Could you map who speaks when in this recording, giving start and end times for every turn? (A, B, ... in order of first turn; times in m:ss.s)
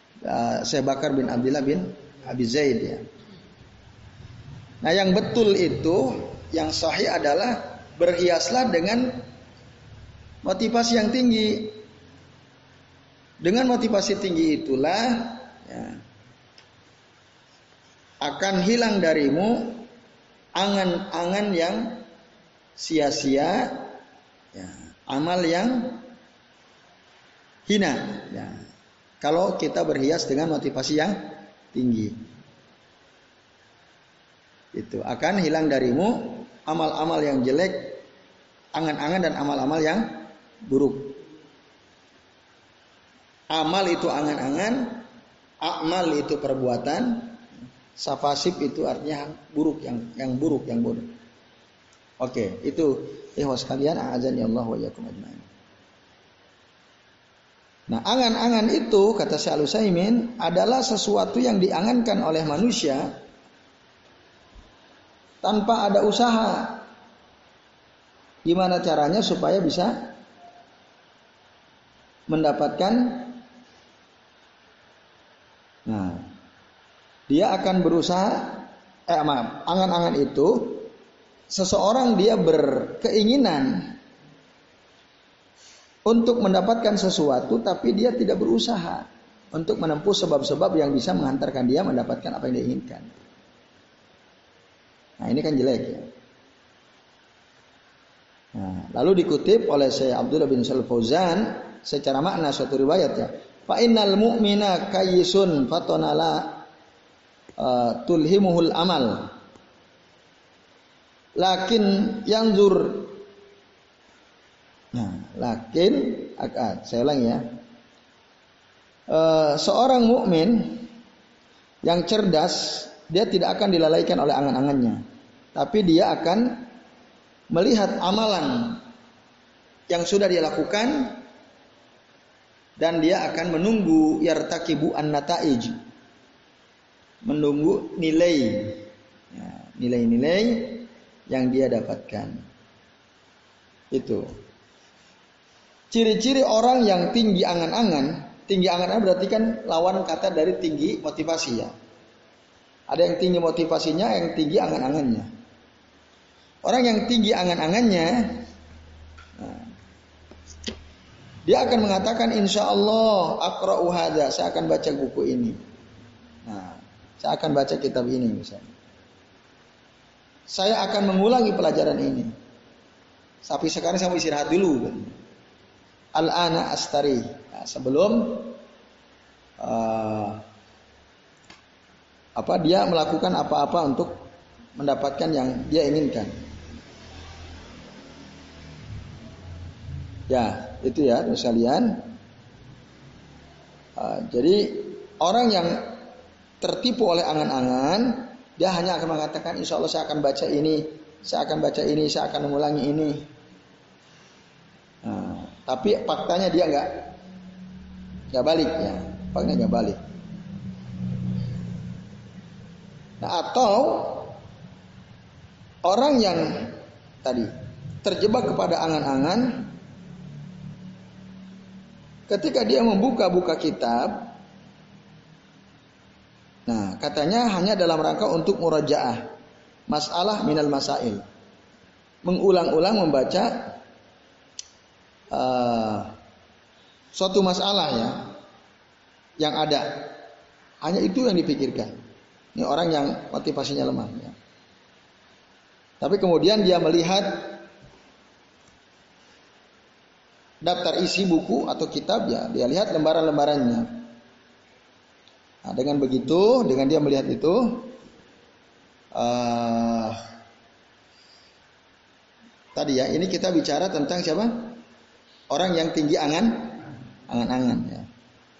0:00.2-0:03.0 A
0:04.8-0:09.2 A
0:10.4-0:11.8 A
0:13.4-0:16.0 A
0:18.2-0:19.8 A
0:20.5-0:22.0 A
0:22.8-0:23.9 A
0:24.5-0:26.0 A
0:27.7-0:28.6 A
0:29.2-0:32.2 A
0:34.7-0:38.0 A
0:38.7-0:41.2 A
0:43.5-0:45.0 A
0:45.6-0:47.4 A
0:48.0-0:51.1 A
0:52.2-0:55.4 A
0:57.9-1:03.1 A
1:05.4-1:06.8 A
1:08.4-1:10.2 A
1:12.3-1:13.4 A
1:15.9-1:16.3 A
1:17.3-1:20.9 A
1:21.5-1:24.0 A
1:26.0-1:33.1 A
1:35.2-1:36.1 A
1:38.5-1:46.7 A
1:47.6-1:49.3 A
1:51.4-1:53.2 A
1:54.9-1:57.4 A
1:59.1-2:00.9 A
2:01.8-2:05.0 A
2:05.5-2:06.7 A
2:07.5-2:08.8 A
2:09.9-2:11.2 A
2:12.8-2:15.7 A
2:17.2-2:22.4 A
2:23.9-2:24.2 A
2:25.9-2:31.7 A
2:32.9-2:35.3 A
2:36.6-2:38.4 A
2:39.4-2:39.7 A
2:41.4-2:45.6 A
2:46.4-2:48.7 A
2:50.5-2:52.3 A
2:53.4-2:55.1 A
2:56.1-2:58.6 A
2:59.6-3:00.4 A
3:02.4-3:04.2 A
3:04.8-3:06.3 A
3:10.3-3:12.1 A
3:14.0-3:16.0 A
3:16.6-3:23.2 A
3:25.0-3:27.1 A
3:28.3-3:30.0 A
3:33.2-3:34.3 A
3:35.8-3:37.5 A
3:38.0-3:39.7 A
3:42.3-3:44.3 A
3:46.7-3:49.3 A
3:49.9-3:51.2 A
3:52.2-3:53.8 A
3:55.3-3:56.1 A
3:57.1-3:58.3 A
3:59.4-4:00.2 A
4:00.8-4:01.9 A
4:02.5-4:04.3 A
4:06.0-4:07.6 A
4:10.6-4:14.1 A
4:15.6-4:17.9 A
4:19.1-4:20.2 A
4:22.7-4:24.8 A
4:25.5-4:28.1 A